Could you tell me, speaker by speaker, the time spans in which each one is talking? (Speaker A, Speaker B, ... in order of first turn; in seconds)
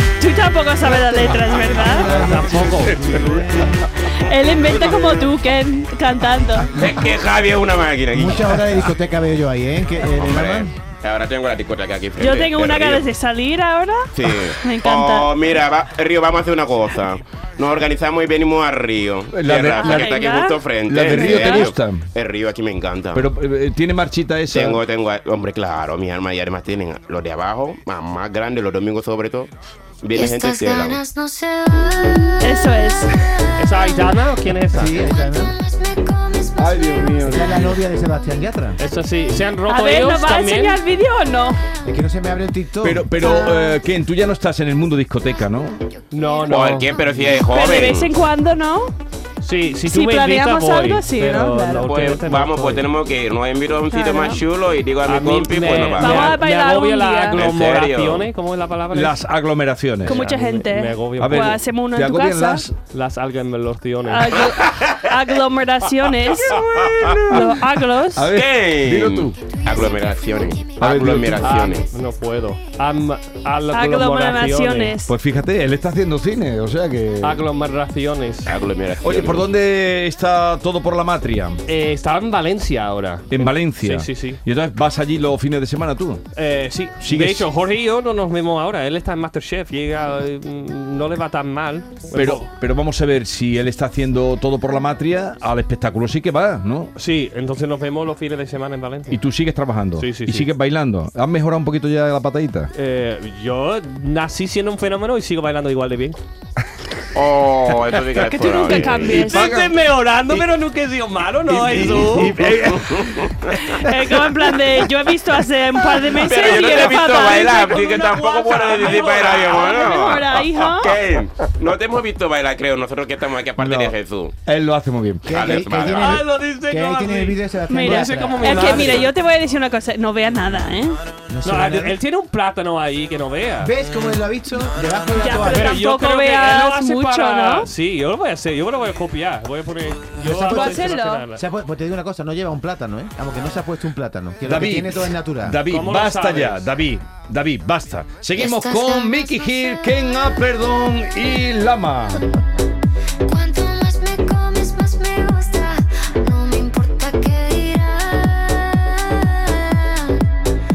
Speaker A: 0.2-2.1, 4.0-6.8, 12.2-15.6, 19.7-21.7, 32.4-33.1, 39.7-41.6, 43.2-43.8, 47.4-48.9, 49.9-51.9, 53.9-54.4, 56.0-57.4, 60.0-62.7, 64.1-68.3, 73.7-75.1, 108.3-109.5, 113.6-121.0, 127.7-131.0, 135.2-137.7, 140.4-141.2
Speaker B: 0.9-3.8, 8.1-10.7, 34.7-35.5, 37.2-38.8, 41.8-43.1, 125.2-129.1, 131.3-132.0, 133.6-135.8, 140.2-145.6
Speaker C: 1.8-3.0, 33.6-35.0, 38.8-40.8, 46.1-47.4, 49.4-52.9, 55.0-59.2, 60.0-61.6, 62.9-64.4, 71.3-75.0, 77.2-78.5, 81.6-84.4, 86.3-92.5, 97.0-99.2, 100.0-100.5, 102.7-106.2, 108.2-112.6, 116.4-116.9, 118.8-119.3, 125.9-129.1, 131.4-133.7, 135.4-141.4, 145.6-146.7
Speaker D: 2.7-3.6, 19.3-20.2, 20.9-22.1, 23.1-24.8, 36.6-37.8, 42.8-45.8, 58.9-60.3, 61.2-62.8, 67.0-69.4, 70.8-71.5, 75.0-77.5, 79.0-81.6, 83.3-86.2, 87.0-87.5, 92.1-96.9, 99.1-102.7, 109.0-109.7, 111.5-113.3, 123.6-123.9, 124.5-125.4, 144.4-152.2
Speaker E: 4.6-5.2, 6.7-8.9, 10.0-13.1, 14.1-23.3, 24.5-31.0, 46.5-48.1, 51.8-56.4, 57.3-58.3, 64.3-65.0, 66.5-67.3, 68.3-71.9, 78.4-79.5, 107.1-109.2, 112.2-113.6, 116.1-124.3, 125.3-126.2
Speaker F: 30.1-38.5, 45.3-48.0, 69.4-72.0, 148.3-150.6, 153.2-160.2